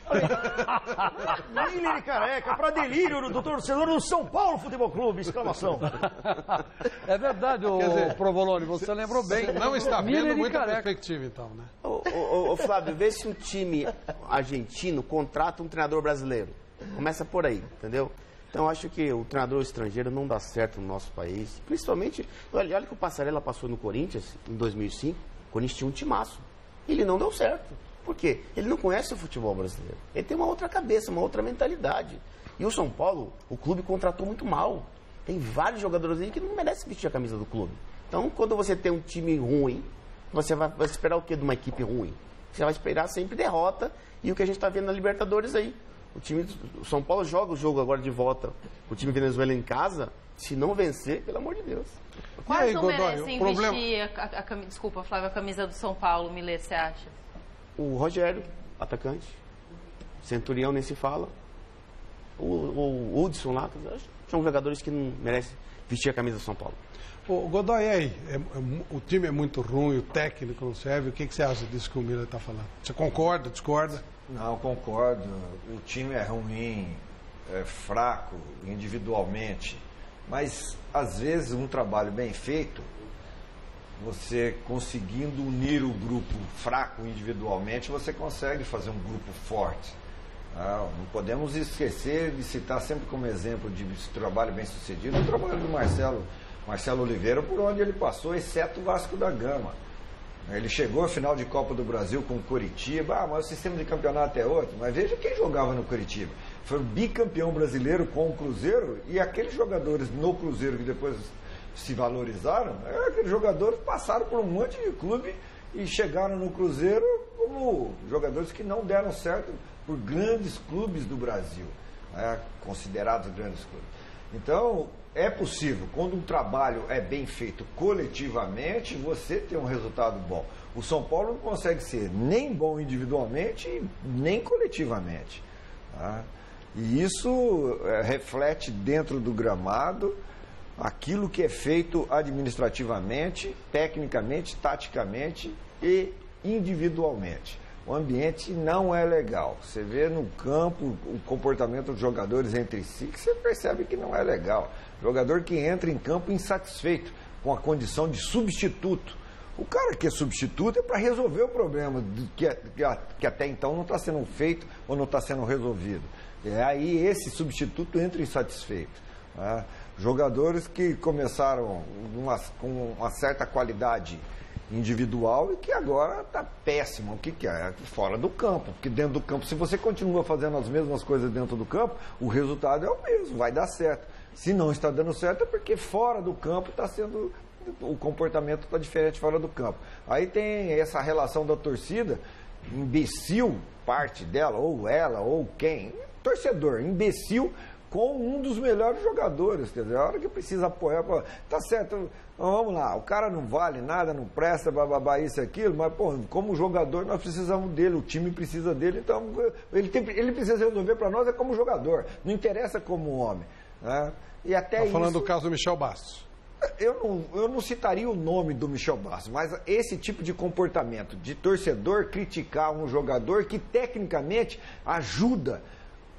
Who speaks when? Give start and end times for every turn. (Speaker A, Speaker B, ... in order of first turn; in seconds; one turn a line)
Speaker A: 0.2-5.9
Speaker B: 6.2-10.9
Speaker C: 7.7-8.2
Speaker C: 9.1-11.7
Speaker D: 11.8-52.0
Speaker C: 52.4-53.9
Speaker E: 52.5-57.1
Speaker D: 57.8-59.4
Speaker D: 60.2-61.3
Speaker D: 62.4-66.8
Speaker C: 67.3-74.0
Speaker F: 74.3-82.9
Speaker F: 84.0-90.0
Speaker F: 90.5-99.8
Speaker F: 100.5-140.2
Speaker F: 140.8-215.3
Speaker C: 214.8-216.2
Speaker F: 216.7-225.6